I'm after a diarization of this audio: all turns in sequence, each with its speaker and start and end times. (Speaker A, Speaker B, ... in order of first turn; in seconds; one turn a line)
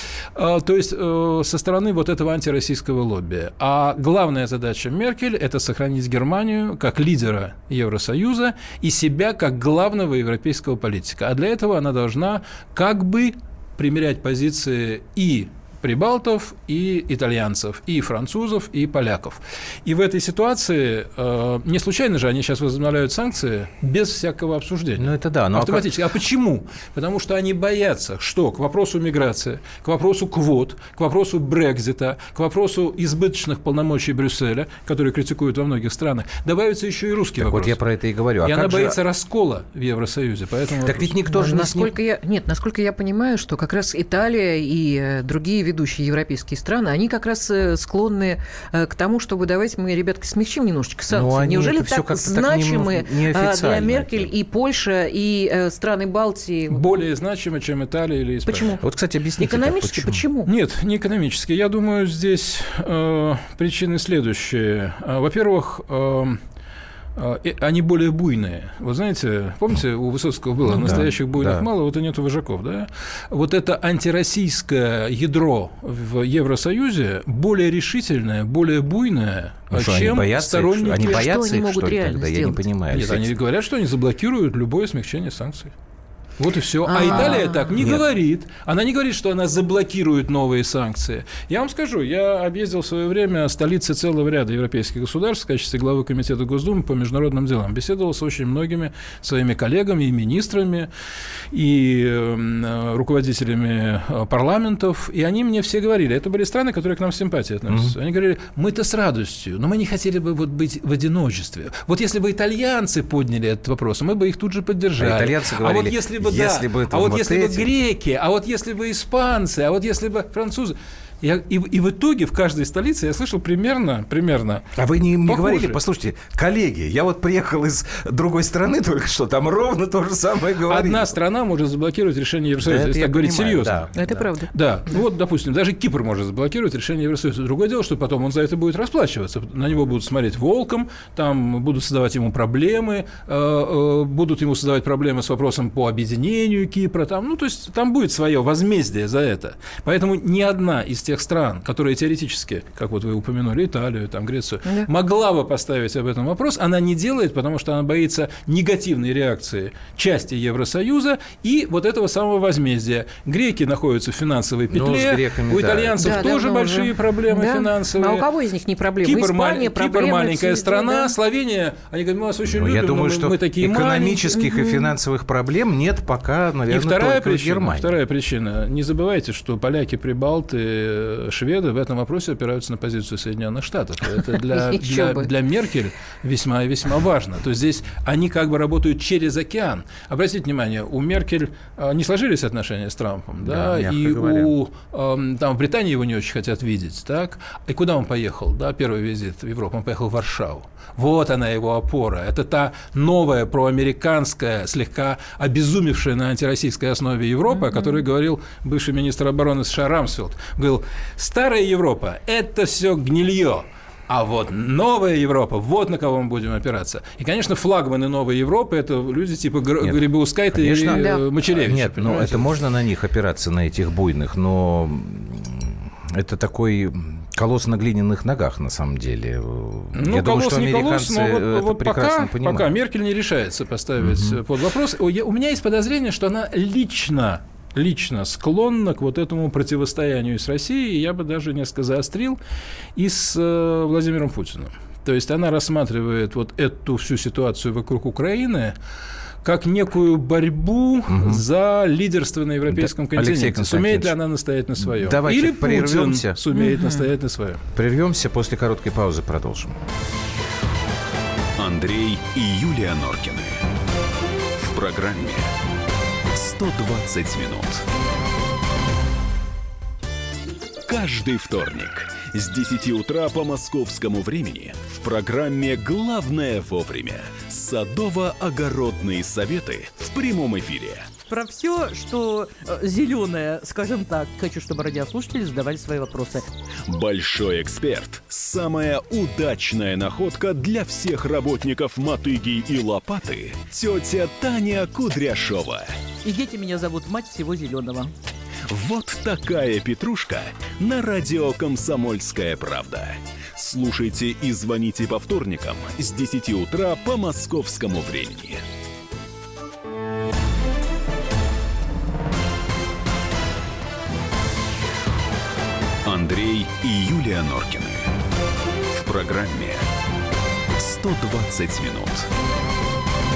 Speaker A: 0.3-37.8
Speaker B: 25.0-25.9
Speaker B: 37.4-39.0
Speaker A: 38.4-41.1
Speaker B: 40.8-41.9
Speaker C: 41.3-56.8
Speaker B: 51.1-54.3
Speaker A: 56.7-58.8
Speaker C: 58.5-58.9
Speaker B: 58.8-60.2
Speaker C: 59.4-60.5
Speaker A: 60.5-66.4
Speaker A: 67.2-81.3
Speaker B: 70.7-71.7
Speaker B: 79.7-83.3
Speaker C: 80.9-82.6
Speaker A: 82.9-85.7
Speaker A: 86.4-100.9
Speaker C: 86.8-87.9
Speaker B: 87.1-88.0
Speaker A: 101.5-124.7
Speaker B: 107.7-108.0
Speaker B: 115.0-117.7
Speaker B: 124.8-131.2
Speaker A: 125.2-125.8
Speaker A: 130.7-133.9
Speaker B: 132.6-134.3
Speaker C: 133.9-134.5
Speaker A: 134.5-168.3
Speaker B: 164.7-166.3
Speaker C: 166.0-171.2
Speaker A: 169.0-174.5
Speaker B: 172.4-178.0
Speaker C: 174.4-174.9
Speaker A: 176.7-222.5
Speaker C: 184.5-185.3
Speaker B: 193.4-194.5
Speaker C: 207.5-208.0
Speaker B: 219.8-232.7
Speaker C: 220.9-221.2
Speaker A: 229.9-242.4
Speaker B: 234.0-234.4
Speaker A: 243.0-248.8
Speaker A: 249.4-257.6
Speaker B: 251.1-251.4
Speaker B: 252.7-254.2
Speaker B: 254.8-256.4
Speaker C: 256.5-257.1
Speaker B: 257.8-259.8
Speaker D: 261.6-263.6
Speaker D: 264.6-265.5
Speaker D: 266.3-267.9
Speaker D: 270.9-281.1
Speaker E: 281.3-286.5
Speaker D: 286.9-295.9
Speaker E: 296.2-298.1
Speaker D: 298.7-308.6
Speaker D: 316.1-318.1
Speaker D: 318.9-319.9
Speaker D: 320.8-322.3